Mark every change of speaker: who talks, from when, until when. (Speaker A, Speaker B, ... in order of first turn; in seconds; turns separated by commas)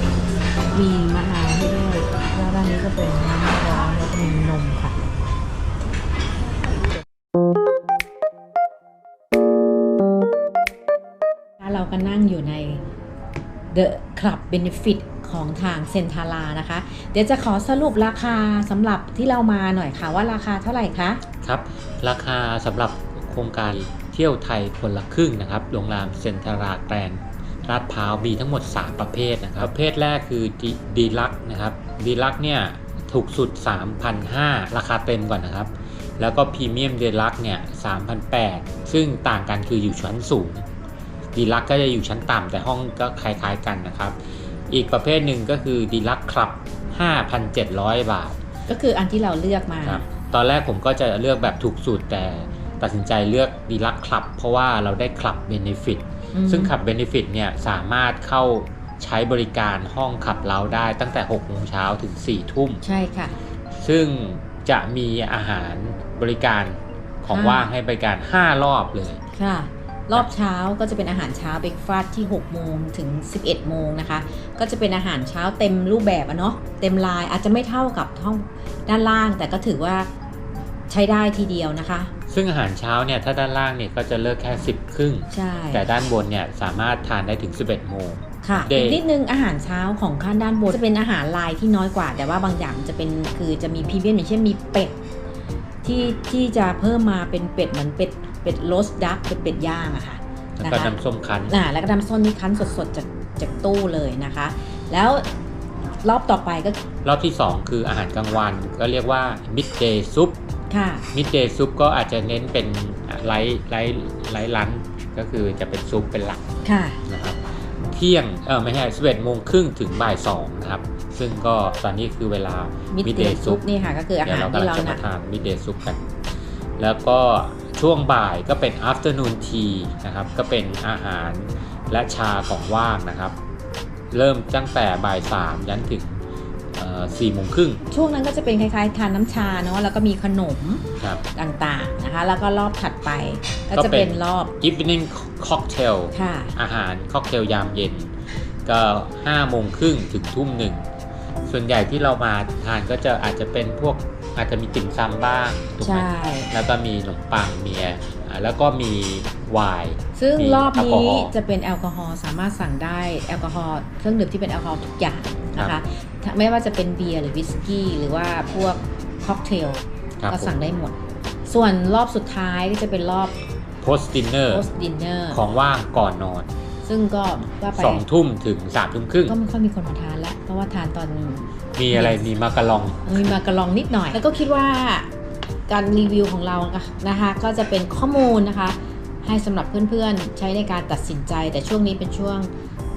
Speaker A: 0.7-5.0, Speaker A: 11.6-12.8, Speaker A: 13.7-21.2, Speaker B: 21.4-40.6, Speaker B: 41.3-44.2, Speaker B: 44.7-48.4, Speaker A: 48.7-50.0, Speaker B: 49.9-62.8, Speaker A: 56.3-56.7, Speaker A: 62.8-63.4, Speaker B: 63.8-69.2, Speaker A: 67.3-67.7, Speaker A: 69.3-80.1, Speaker A: 80.9-82.1, Speaker B: 82.3-89.0, Speaker A: 85.3-85.8, Speaker A: 88.4-95.0, Speaker A: 95.8-100.9, Speaker B: 100.6-101.5, Speaker A: 101.5-105.3, Speaker A: 106.0-106.8, Speaker B: 107.0-110.4, Speaker A: 110.7-111.1, Speaker B: 111.1-116.4, Speaker A: 116.7-117.0, Speaker B: 117.1-123.7, Speaker A: 122.9-125.0, Speaker B: 124.2-126.0, Speaker B: 126.8-133.3, Speaker B: 134.1-136.2, Speaker B: 136.8-137.8, Speaker A: 137.9-144.5, Speaker B: 143.8-148.1, Speaker A: 146.1-146.5, Speaker B: 148.7-150.9, Speaker B: 151.5-161.3, Speaker A: 155.8-156.5, Speaker A: 160.2-173.4, Speaker B: 170.2-170.5, Speaker B: 173.8-174.7, Speaker A: 174.5-175.4, Speaker B: 175.3-176.5, Speaker A: 176.8-178.0, Speaker B: 177.8-179.4, Speaker A: 179.3-182.2, Speaker B: 181.8-183.4, Speaker A: 183.1-185.1, Speaker A: 185.7-192.5